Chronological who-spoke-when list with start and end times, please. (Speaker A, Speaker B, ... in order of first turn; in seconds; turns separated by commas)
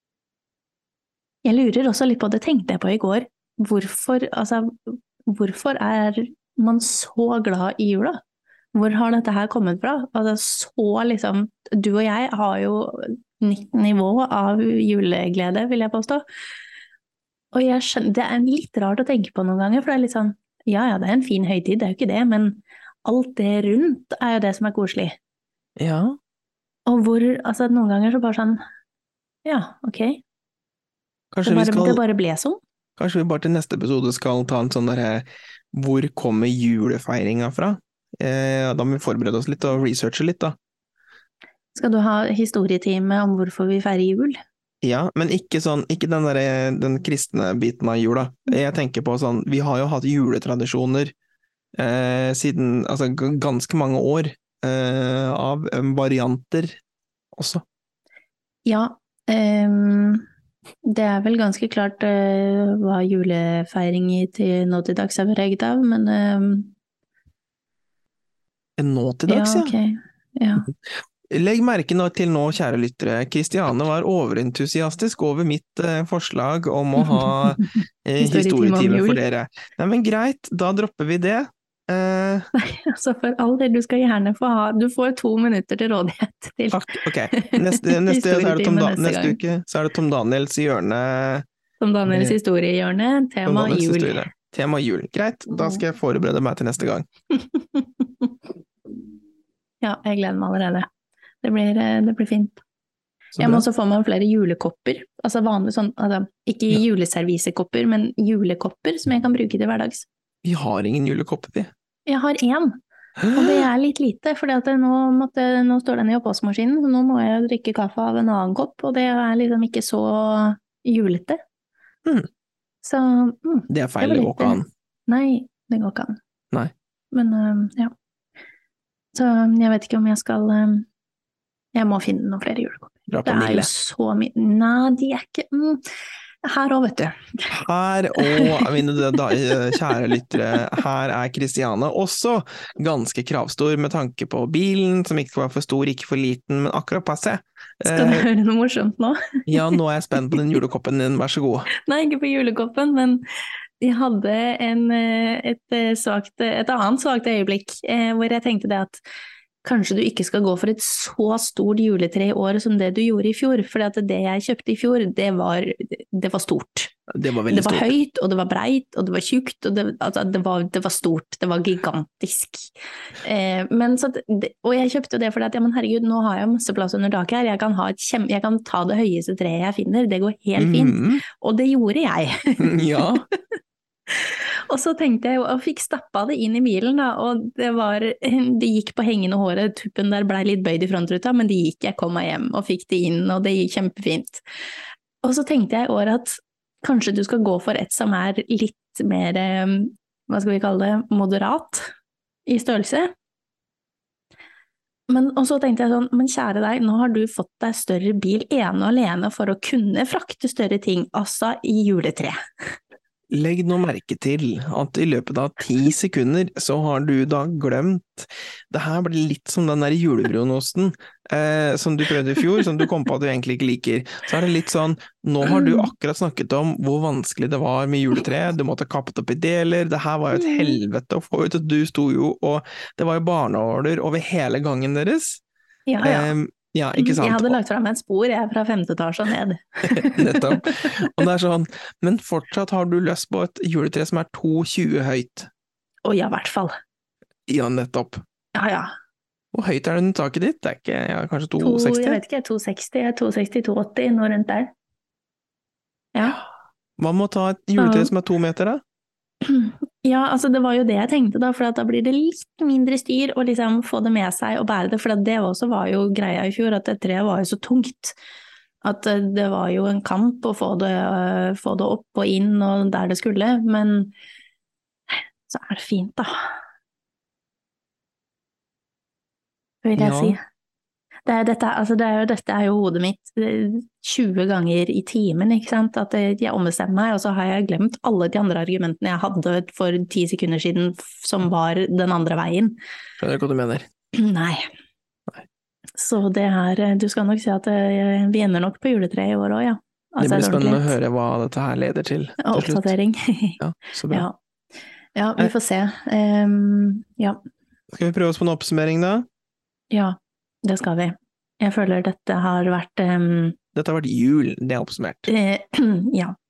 Speaker A: 1.4-8.2, Speaker A: 8.7-16.2, Speaker A: 17.5-25.2, Speaker B: 25.8-26.2, Speaker A: 26.9-28.6, Speaker A: 29.4-30.2, Speaker B: 31.3-32.0, Speaker A: 31.4-32.6, Speaker B: 33.0-40.6, Speaker A: 41.8-44.4, Speaker B: 44.8-51.1, Speaker B: 51.8-56.8, Speaker B: 57.3-57.6, Speaker A: 58.6-60.2, Speaker A: 60.8-66.7, Speaker B: 68.8-69.8, Speaker A: 69.3-70.7, Speaker B: 71.3-82.5, Speaker A: 77.1-77.7, Speaker A: 78.2-79.2, Speaker A: 82.5-89.4, Speaker B: 86.7-91.5, Speaker A: 91.8-94.2, Speaker B: 92.1-92.3, Speaker B: 93.5-97.1, Speaker A: 95.5-95.8, Speaker A: 97.3-98.3, Speaker A: 99.8-100.9, Speaker A: 101.4-102.6, Speaker B: 103.3-103.7, Speaker A: 103.4-110.1, Speaker B: 110.4-111.7, Speaker A: 112.1-112.8, Speaker B: 113.2-113.7, Speaker A: 113.3-121.4, Speaker A: 122.8-126.2, Speaker B: 123.7-124.7, Speaker A: 127.1-127.9, Speaker A: 129.1-130.9, Speaker A: 131.7-135.8, Speaker B: 133.1-133.7, Speaker A: 136.4-137.5, Speaker B: 137.5-148.3, Speaker A: 138.2-139.3, Speaker A: 147.8-149.8, Speaker B: 149.5-151.7, Speaker A: 151.7-153.2, Speaker A: 153.8-159.0, Speaker A: 159.6-166.9, Speaker B: 167.1-167.9, Speaker A: 167.5-183.4, Speaker B: 180.6-181.2, Speaker B: 182.6-183.3, Speaker A: 184.1-194.4, Speaker A: 195.2-201.9, Speaker A: 202.5-203.1, Speaker A: 205.1-212.4, Speaker B: 213.3-235.4, Speaker A: 225.4-225.9, Speaker A: 230.3-230.8, Speaker A: 235.9-236.3, Speaker B: 236.0-237.6, Speaker A: 237.0-241.2, Speaker B: 239.9-245.5, Speaker A: 246.1-246.7, Speaker B: 247.5-248.2, Speaker A: 248.5-248.9, Speaker B: 249.5-252.2, Speaker A: 251.6-254.7, Speaker A: 256.1-256.4, Speaker B: 257.0-258.8, Speaker A: 257.8-258.1, Speaker A: 259.4-268.2, Speaker A: 268.8-274.1, Speaker A: 275.1-276.3, Speaker A: 279.8-280.4, Speaker B: 279.9-280.4, Speaker A: 281.3-292.8, Speaker B: 293.2-293.9, Speaker A: 294.1-294.7, Speaker A: 295.9-300.9, Speaker B: 300.2-302.9, Speaker A: 302.4-303.6, Speaker B: 303.6-304.3, Speaker A: 305.1-307.4, Speaker B: 307.9-309.3, Speaker A: 309.9-313.6, Speaker B: 313.8-315.3, Speaker A: 315.3-316.4